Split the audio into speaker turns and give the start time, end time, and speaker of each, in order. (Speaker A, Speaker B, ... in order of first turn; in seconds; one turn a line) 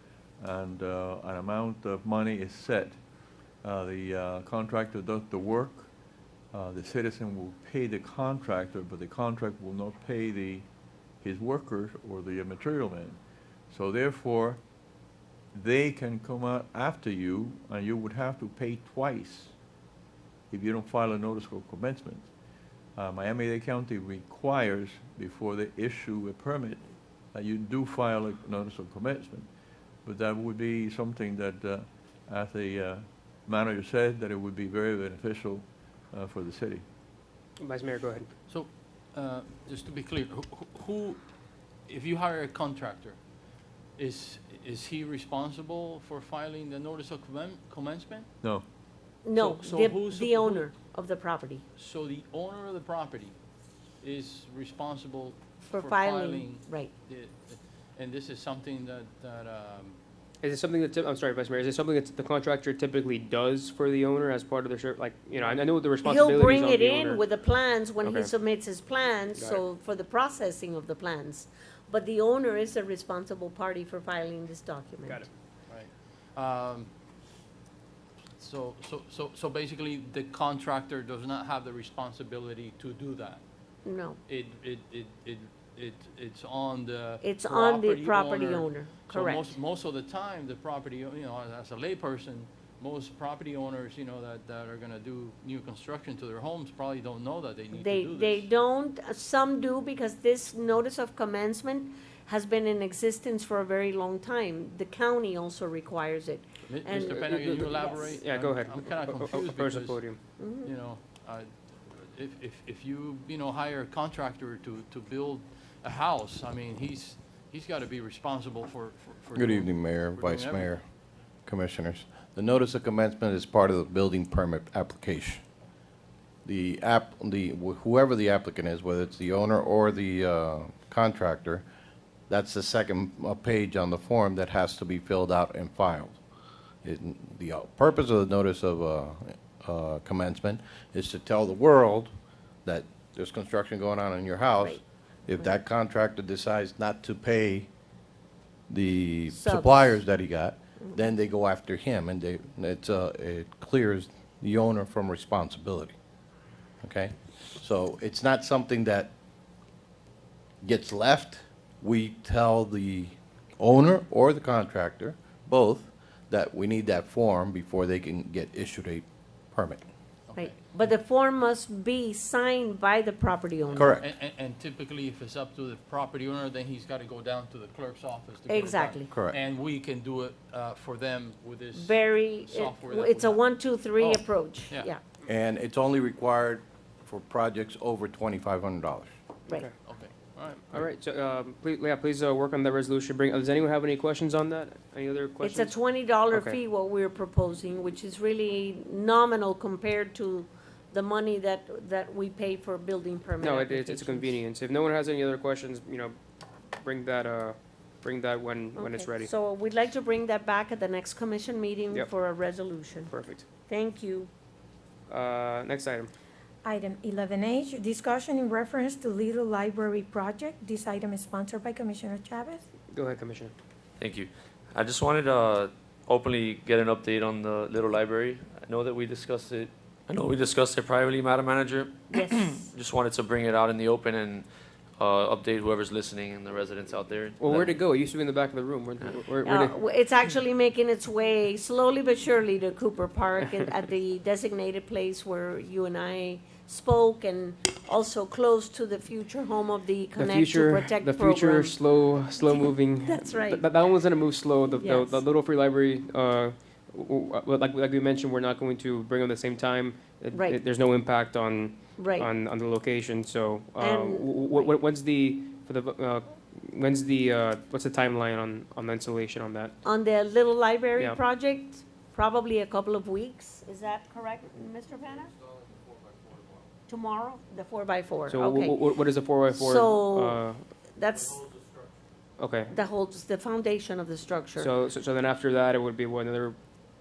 Speaker A: 0.4-3.0
Speaker A: 3.6-5.9
Speaker A: 6.5-10.7
Speaker A: 11.2-13.2
Speaker A: 13.7-14.6
Speaker A: 15.5-19.5
Speaker A: 20.5-22.3
Speaker A: 22.9-29.5
Speaker A: 30.0-36.8
Speaker B: 37.6-38.3
Speaker C: 38.5-41.2
Speaker C: 41.9-43.2
Speaker C: 44.0-48.3
Speaker D: 49.2-51.6
Speaker C: 49.3-50.7
Speaker C: 51.7-53.4
Speaker C: 54.0-60.0
Speaker D: 55.6-56.9
Speaker B: 60.4-67.2
Speaker D: 66.0-75.2
Speaker B: 68.0-68.3
Speaker B: 69.3-69.6
Speaker C: 75.7-76.9
Speaker C: 78.4-83.4
Speaker D: 83.8-84.2
Speaker C: 84.3-98.5
Speaker D: 87.2-89.5
Speaker D: 97.7-108.1
Speaker C: 106.7-120.8
Speaker B: 106.9-110.2
Speaker D: 110.4-110.7
Speaker E: 119.3-120.8
Speaker E: 121.5-125.4
Speaker E: 126.4-131.6
Speaker E: 132.3-136.2
Speaker E: 136.8-142.1
Speaker E: 142.6-147.7
Speaker E: 148.7-155.9
Speaker D: 149.3-150.0
Speaker E: 156.8-159.1
Speaker E: 160.6-169.8
Speaker C: 170.3-170.6
Speaker D: 170.3-174.0
Speaker C: 173.7-183.4
Speaker E: 173.7-174.0
Speaker D: 178.5-179.1
Speaker E: 179.1-179.4
Speaker D: 181.7-185.0
Speaker C: 184.0-184.9
Speaker E: 185.2-189.1
Speaker C: 189.8-190.8
Speaker B: 190.7-195.7
Speaker D: 195.4-204.4
Speaker B: 196.3-196.6
Speaker B: 203.4-206.2
Speaker B: 206.7-209.3
Speaker D: 208.8-214.3
Speaker B: 213.1-213.5
Speaker B: 215.1-216.1
Speaker F: 216.6-222.6
Speaker B: 222.9-223.5
Speaker G: 224.0-237.8
Speaker D: 232.1-232.6
Speaker B: 237.4-239.7
Speaker D: 239.4-253.7
Speaker B: 250.2-269.7
Speaker D: 254.7-255.2
Speaker D: 260.3-260.6
Speaker D: 261.9-262.3
Speaker D: 263.8-264.8
Speaker D: 269.8-275.4
Speaker D: 276.9-278.8
Speaker B: 278.3-280.7
Speaker D: 279.3-281.5
Speaker B: 282.4-282.7
Speaker D: 282.7-284.7
Speaker B: 284.6-286.6